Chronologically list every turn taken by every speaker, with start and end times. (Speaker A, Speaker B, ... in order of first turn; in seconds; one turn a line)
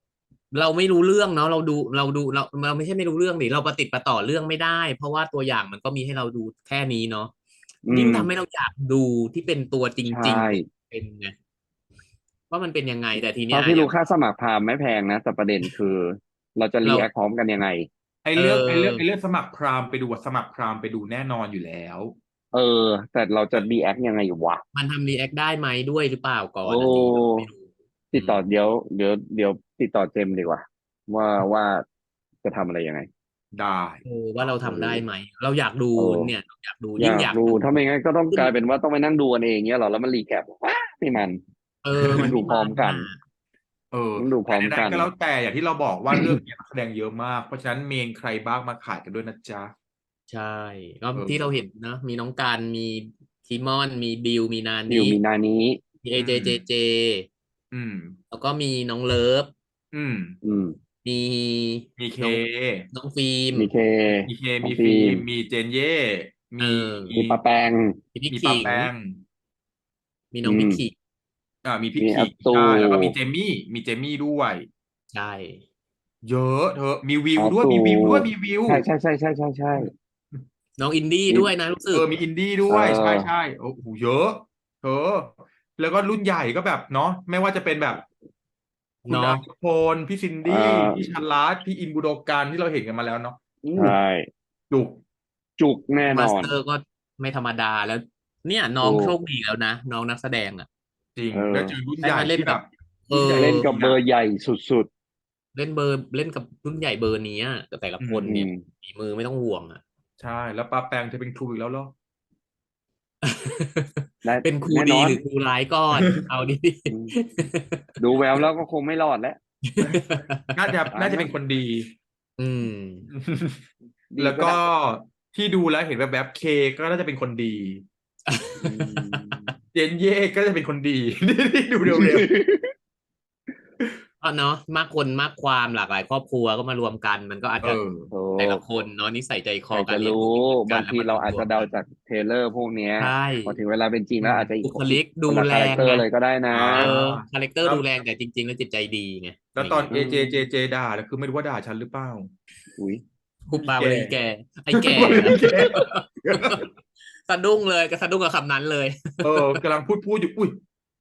Speaker A: 0.5-7.3
Speaker B: 7.8-8.3
Speaker A: 7.9-11.3
Speaker B: 10.1-10.6
Speaker A: 12.5-13.9
Speaker B: 13.5-17.9
Speaker A: 16.8-17.1
Speaker C: 18.2-22.1
Speaker A: 18.4-19.0
Speaker B: 22.5-24.6
Speaker A: 24.7-28.4
Speaker B: 26.6-27.5
Speaker B: 28.1-31.8
Speaker B: 32.4-33.1
Speaker C: 33.5-34.0
Speaker A: 34.0-37.6
Speaker B: 34.6-35.0
Speaker B: 36.0-36.3
Speaker B: 37.0-41.4
Speaker A: 41.8-43.2
Speaker C: 41.9-42.4
Speaker B: 42.1-43.1
Speaker C: 43.9-49.7
Speaker B: 44.1-45.1
Speaker A: 50.3-55.2
Speaker C: 51.1-51.5
Speaker B: 54.9-55.8
Speaker A: 56.0-57.3
Speaker C: 56.1-56.6
Speaker C: 57.7-58.2
Speaker A: 58.3-59.5
Speaker C: 59.9-60.4
Speaker B: 60.4-60.8
Speaker A: 61.0-63.7
Speaker C: 62.0-62.9
Speaker B: 63.5-65.2
Speaker C: 64.2-67.4
Speaker A: 66.6-67.2
Speaker B: 67.2-68.0
Speaker A: 68.1-68.9
Speaker C: 68.3-69.2
Speaker A: 70.3-70.9
Speaker B: 70.4-70.8
Speaker C: 71.6-74.7
Speaker B: 72.0-73.1
Speaker A: 75.1-75.6
Speaker C: 76.2-78.8
Speaker B: 77.3-79.9
Speaker C: 79.8-80.4
Speaker A: 80.8-82.1
Speaker C: 81.9-88.0
Speaker B: 82.7-83.3
Speaker A: 89.0-89.4
Speaker C: 89.0-94.0
Speaker B: 90.4-91.0
Speaker B: 93.6-94.3
Speaker C: 94.7-95.0
Speaker B: 95.6-96.5
Speaker A: 96.1-100.7
Speaker B: 98.8-99.2
Speaker C: 101.2-104.0
Speaker B: 101.3-101.7
Speaker A: 102.0-103.7
Speaker B: 103.3-104.9
Speaker A: 105.5-109.8
Speaker C: 108.0-108.3
Speaker B: 108.2-108.6
Speaker C: 110.2-111.9
Speaker A: 113.2-118.4
Speaker B: 114.2-115.2
Speaker B: 116.9-117.1
Speaker B: 118.0-119.4
Speaker A: 119.7-120.4
Speaker C: 119.8-121.9
Speaker B: 120.9-121.3
Speaker A: 122.4-123.1
Speaker C: 123.1-123.6
Speaker B: 124.1-124.6
Speaker C: 124.2-127.8
Speaker A: 128.3-129.3
Speaker B: 128.6-129.5
Speaker C: 129.7-132.3
Speaker B: 131.8-132.7
Speaker A: 134.2-137.8
Speaker C: 137.6-138.1
Speaker B: 138.1-138.6
Speaker A: 138.4-141.7
Speaker B: 139.7-146.9
Speaker A: 143.0-143.6
Speaker C: 144.2-144.5
Speaker A: 144.6-146.1
Speaker C: 146.5-147.9
Speaker A: 146.7-149.9
Speaker C: 149.5-152.3
Speaker B: 149.9-150.5
Speaker B: 152.8-153.0
Speaker A: 153.5-156.7
Speaker C: 153.5-154.1
Speaker C: 154.7-156.6
Speaker A: 157.2-159.6
Speaker C: 159.2-160.6